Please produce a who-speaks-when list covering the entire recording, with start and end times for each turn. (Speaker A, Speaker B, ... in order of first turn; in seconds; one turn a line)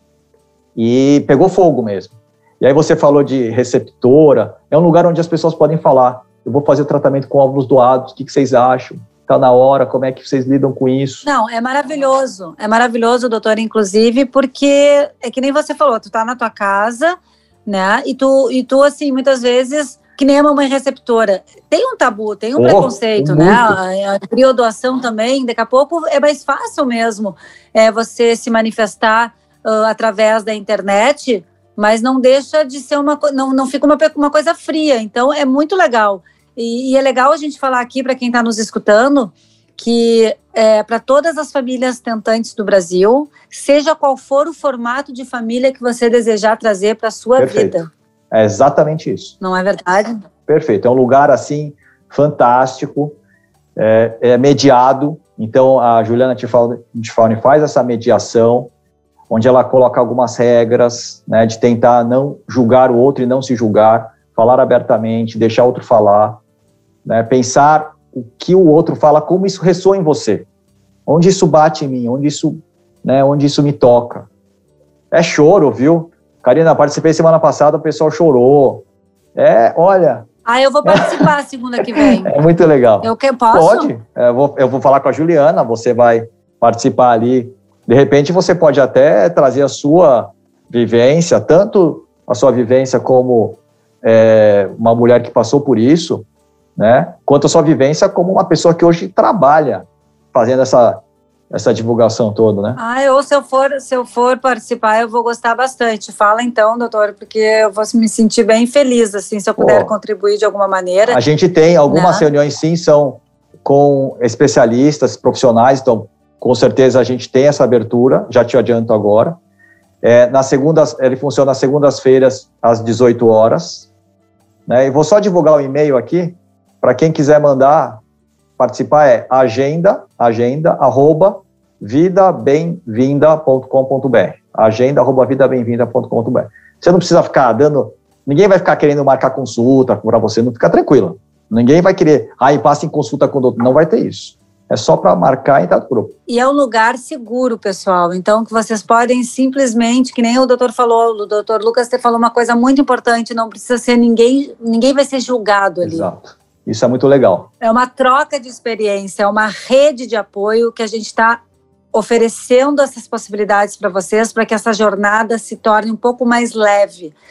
Speaker A: 0.8-11.3
Speaker B: 11.2-17.1
Speaker B: 17.6-47.9
Speaker A: 22.6-23.8
Speaker A: 47.4-49.3
Speaker B: 49.4-50.2
Speaker A: 50.5-53.1
Speaker A: 53.8-58.7
Speaker A: 59.3-66.4
Speaker A: 67.0-70.5
Speaker A: 71.1-74.3
Speaker A: 75.1-78.8
Speaker A: 79.3-80.3
Speaker B: 80.5-82.3
Speaker A: 80.8-81.3
Speaker A: 81.9-96.2
Speaker B: 83.0-83.9
Speaker A: 96.8-102.8
Speaker B: 102.8-111.2
Speaker A: 109.6-109.9
Speaker A: 111.1-119.4
Speaker B: 111.9-112.2
Speaker A: 120.0-123.9
Speaker A: 124.7-128.0
Speaker A: 128.6-146.1
Speaker B: 146.3-156.1
Speaker A: 155.8-157.5
Speaker B: 157.6-161.4
Speaker B: 161.9-167.1